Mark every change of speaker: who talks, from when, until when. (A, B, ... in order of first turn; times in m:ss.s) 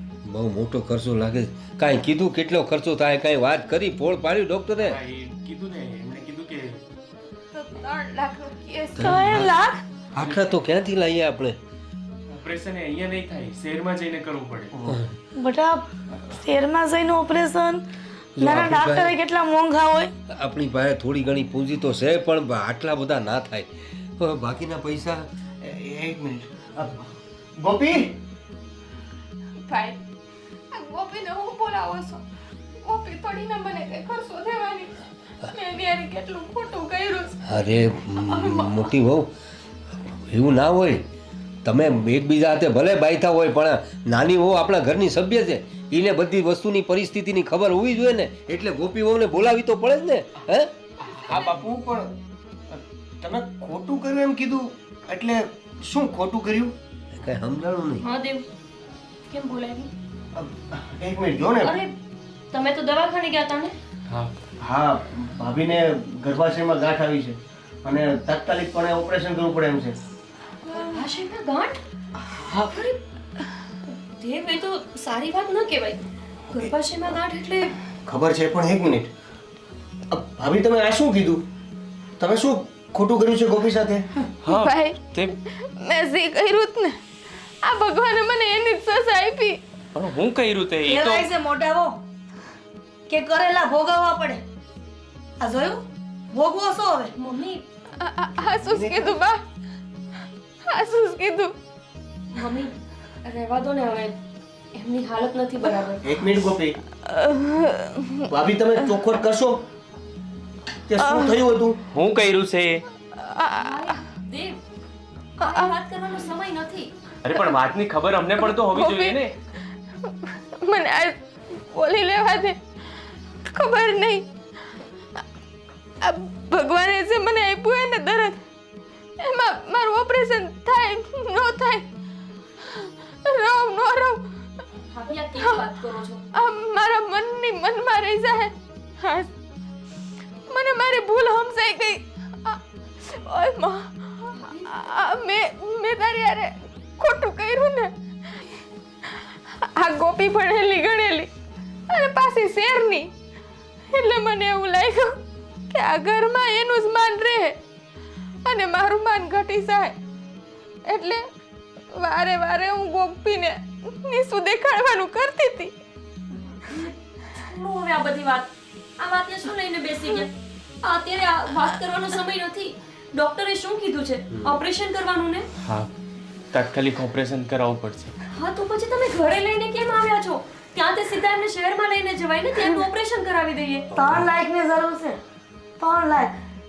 0:00.3-0:05.0 A
0:04.8-0:06.8 B
0:07.5-0:09.4 C
0:09.0-0:09.5 A
0:09.0-0:09.8 D
0:10.2-0:11.6 A
0:10.2-0:10.5 B
0:12.3-0:14.7 B
0:15.4-0:17.8 D
0:18.4-0:19.2 A
0:18.4-0:20.1 D
0:20.3-0:25.2 A
0:25.6-0:27.0 E
0:27.6-0:28.1 E
0:29.6-0:30.0 C
0:30.7-0:32.2 C
0:32.8-0:34.9 C
0:35.5-0:37.4 C
0:37.4-0:39.3 A
0:38.2-0:38.9 C
0:40.1-0:41.0 A
0:41.6-0:50.7 A
0:51.1-0:52.1 E
0:52.7-0:56.7 E
0:57.1-0:58.0 A
0:58.0-0:58.4 F
0:59.3-0:59.9 F
1:00.4-1:01.8 E
1:01.6-1:01.9 F
1:02.5-1:03.7 F
1:04.6-1:10.0 E
1:10.7-1:11.8 F
1:12.6-1:13.0 F
1:14.2-1:17.8 F
1:18.1-1:19.1 E
1:20.1-1:21.4 E
1:22.2-1:24.0 E
1:24.4-1:25.4 B
1:24.5-1:27.0 C
1:27.6-1:29.6 C
1:30.0-1:31.3 B
1:30.8-1:32.0 D
1:33.1-1:34.4 D
1:35.4-1:37.1 D
1:37.2-1:37.6 F
1:38.0-1:39.4 C
1:38.4-1:39.2 E
1:40.7-1:41.5 C
1:42.3-1:44.2 F
1:44.8-1:46.1 F
1:46.0-1:46.8 E
1:47.3-1:48.0 C
1:48.3-1:49.6 E
1:50.9-1:51.8 E
1:51.0-1:51.4 C
1:51.9-1:52.8 B
1:53.4-1:54.6 F
1:55.4-1:56.9 F
1:55.4-1:55.7 C
1:57.2-1:59.4 B
1:58.7-1:59.3 C
2:00.0-2:01.2 C
2:01.7-2:02.6 C
2:03.5-2:04.3 C
2:06.0-2:08.4 C
2:09.2-2:11.9 C
2:12.7-2:14.2 C
2:14.9-2:16.2 F
2:16.3-2:19.3 C
2:20.5-2:27.9 C
2:24.3-2:24.8 F
2:29.8-2:31.3 C
2:31.9-2:33.1 C
2:33.9-2:35.2 C
2:35.7-2:37.6 C
2:38.4-2:40.0 C
2:40.9-2:41.2 C
2:41.9-2:45.7 C
2:46.6-2:55.5 F
2:55.6-2:55.9 B
2:56.5-2:58.1 B
2:58.3-3:03.9 F
3:03.9-3:04.3 A
3:04.0-3:05.2 D
3:05.8-3:06.3 D